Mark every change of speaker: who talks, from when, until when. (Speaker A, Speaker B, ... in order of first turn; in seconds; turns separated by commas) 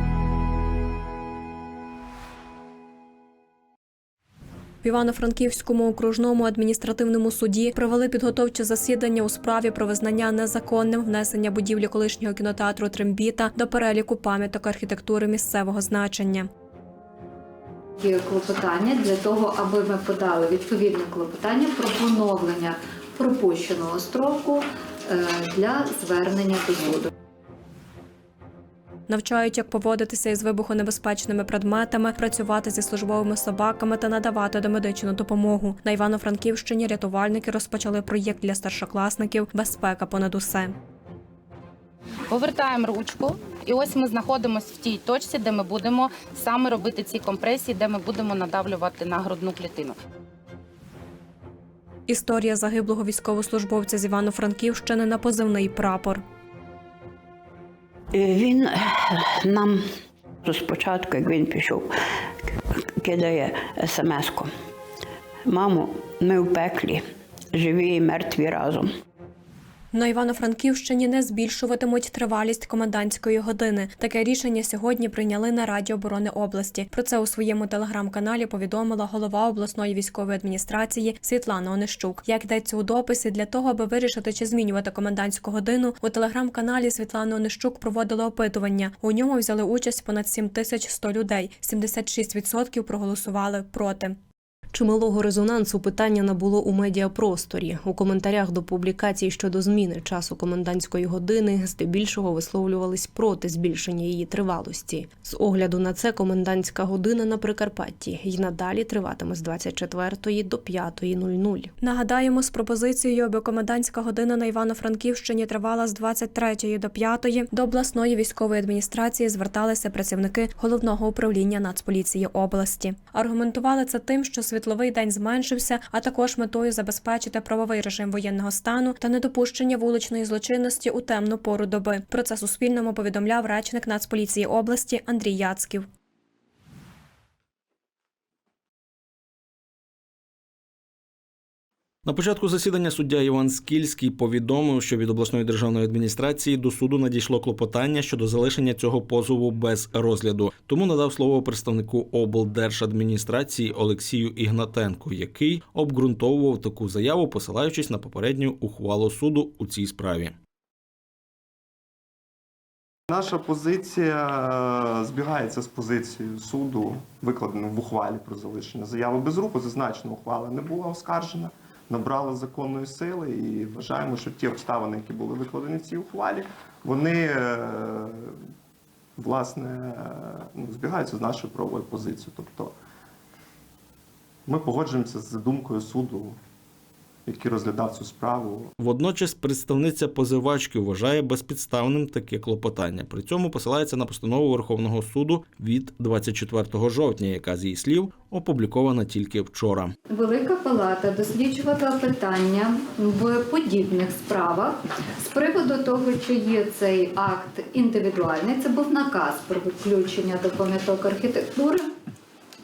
Speaker A: 4.8-16.5, Speaker B: 18.0-27.1, Speaker A: 29.1-40.7, Speaker C: 42.3-49.9, Speaker A: 52.1-56.2, Speaker D: 58.1-59.8, Speaker D: 60.5-61.9, Speaker D: 62.8-64.5, Speaker D: 65.5-67.0, Speaker D: 67.5-68.9, Speaker A: 69.9-94.1, Speaker E: 94.7-111.7, Speaker A: 111.8-135.8, Speaker F: 142.0-160.4, Speaker G: 163.1-178.3, Speaker G: 179.2-182.7, Speaker G: 184.4-186.4, Speaker G: 187.2-188.7, Speaker F: 188.8-199.9, Speaker B: 200.1-211.9